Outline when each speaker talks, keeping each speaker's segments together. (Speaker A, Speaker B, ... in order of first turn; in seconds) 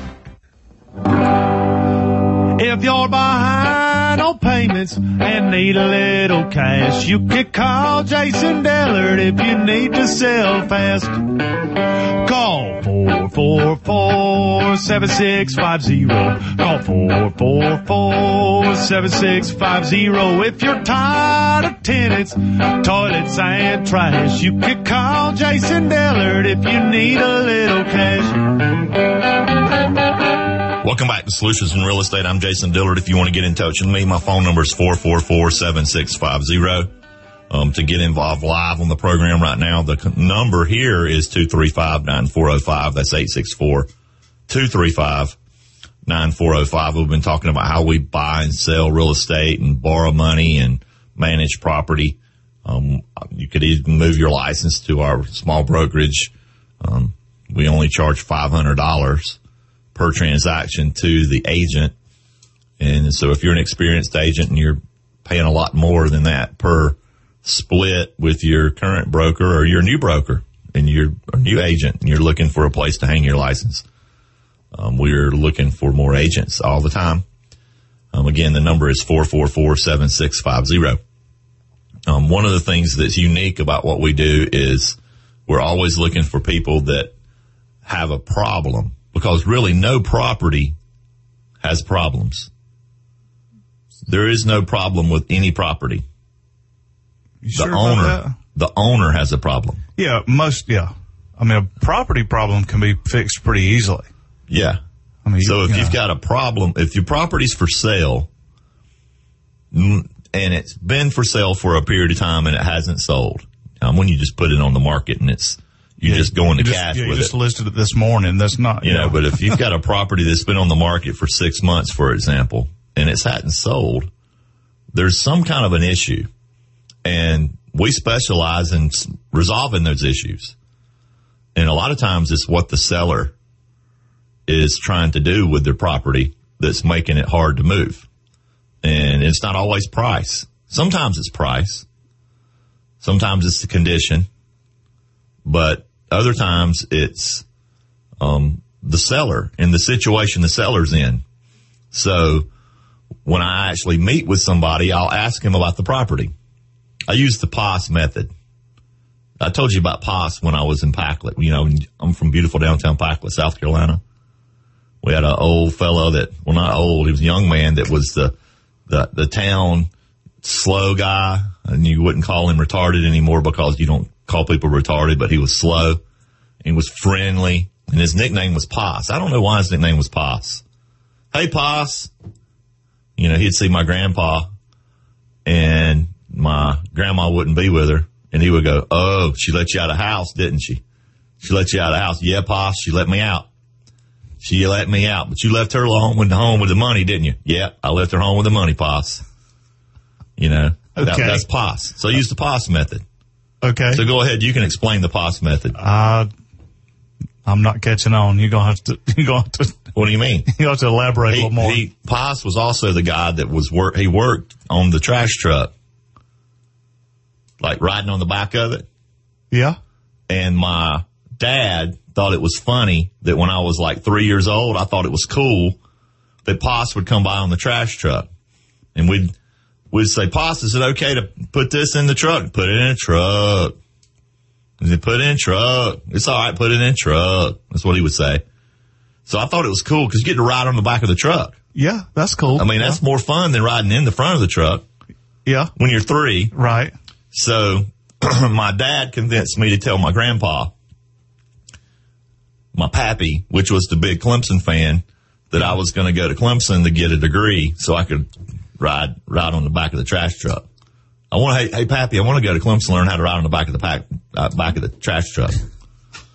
Speaker A: 2.6-11.2, 12.2-28.5
Speaker B: 30.8-36.9, 37.5-43.9, 44.5-45.4, 46.0-59.4, 60.0-61.9, 62.8-73.8, 74.7-77.3, 78.1-81.0, 82.1-87.1, 87.8-90.8, 91.6-92.5, 94.1-96.0, 97.5-99.8, 104.5-104.8, 105.4-108.3, 109.7-117.3, 118.8-124.1, 124.9-126.3, 127.0-130.6, 131.6-133.3, 134.5-138.1, 138.8-141.9, 143.0-144.3, 145.4-147.4, 148.2-151.2, 151.9-152.5, 153.2-156.3, 157.1-158.3, 159.4-164.0, 165.0-168.3, 168.9-169.9, 170.4-176.0, 176.6-180.6, 181.3-182.1, 183.2-184.5, 185.4-190.8, 191.4-193.5, 194.4-199.2, 200.4-203.0, 203.9-205.8, 209.9-210.5, 211.3-215.7, 217.6-218.9, 220.3-225.8, 226.4-228.3, 228.9-229.3, 229.9-233.7, 234.8-238.4, 239.3-241.6, 242.6-244.8, 245.8-246.5, 247.3-250.7, 252.7-260.6, 261.3-265.6
Speaker C: 97.4-98.3, 100.0-104.1, 105.2-106.0, 116.0-119.6, 200.9-201.4, 203.6-204.0, 205.8-206.3, 207.4-209.9, 210.5-211.8, 219.5-219.8, 241.8-243.0, 245.5-245.7, 246.5-246.9